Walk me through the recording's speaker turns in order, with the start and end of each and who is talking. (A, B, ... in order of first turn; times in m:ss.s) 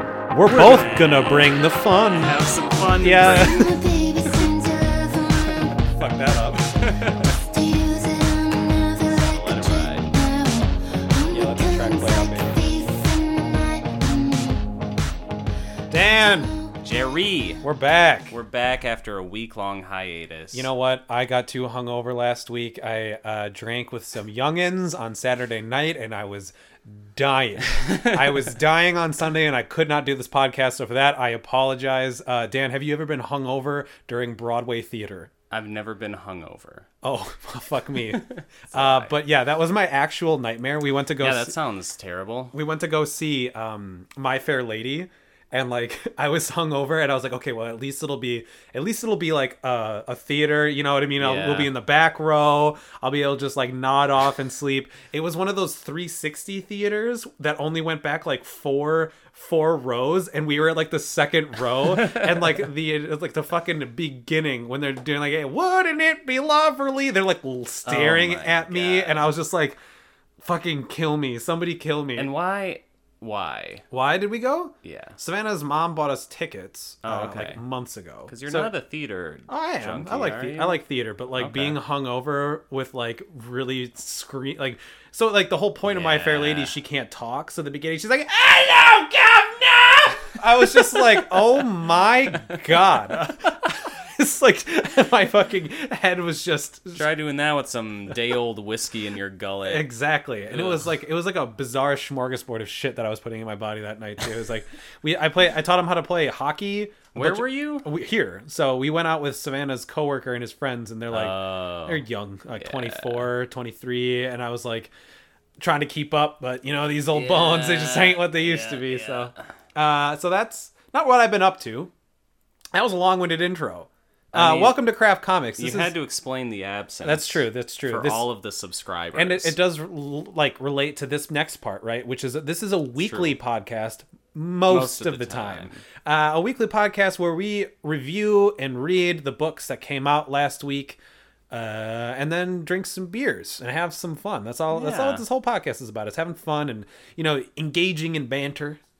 0:00.3-0:02.4 A
0:00.4-0:03.9 B
0:03.0-0:03.7 A
0:03.4-0:05.8 C
0:05.9-0:06.9 A
0:06.8-0:07.3 B
0:07.4-0:14.6 C
0:09.1-0:10.1 B
0:11.3-0:12.7 A
0:15.9-0:16.6 A
0:16.3-0:16.7 C
0:16.8-0:17.6 B
0:17.6-0:18.4 A
0:18.3-0:20.7 B
0:20.5-0:35.3 A
0:27.8-0:28.2 B
0:35.5-0:36.9 B
0:37.0-0:41.6 A
0:38.1-0:39.1 B
0:41.2-0:42.6 B
0:42.5-1:09.8 A
0:51.2-0:51.7 B
1:07.8-1:09.2 B
1:10.4-1:12.3 A
1:12.2-1:13.8 B
1:13.9-1:18.7 A
1:14.8-1:15.2 B
1:17.0-1:17.6 B
1:18.3-1:20.8 B
1:19.5-1:37.1 A
1:21.4-1:21.8 B
1:25.8-1:26.7 B
1:37.0-1:39.9 B
1:39.6-1:54.9 A
1:40.5-1:40.9 B
1:47.1-1:47.9 B
1:51.1-1:52.0 B
1:52.6-1:53.3 B
1:55.6-2:01.9 A
1:57.1-1:59.4 B
2:02.7-2:05.9 A
2:04.3-2:04.8 B
2:05.6-2:09.6 B
2:07.0-2:08.3 A
2:09.2-2:21.0 A
2:13.0-2:13.4 B
2:14.7-2:15.8 B
2:21.5-2:28.8 A
2:24.7-2:25.2 B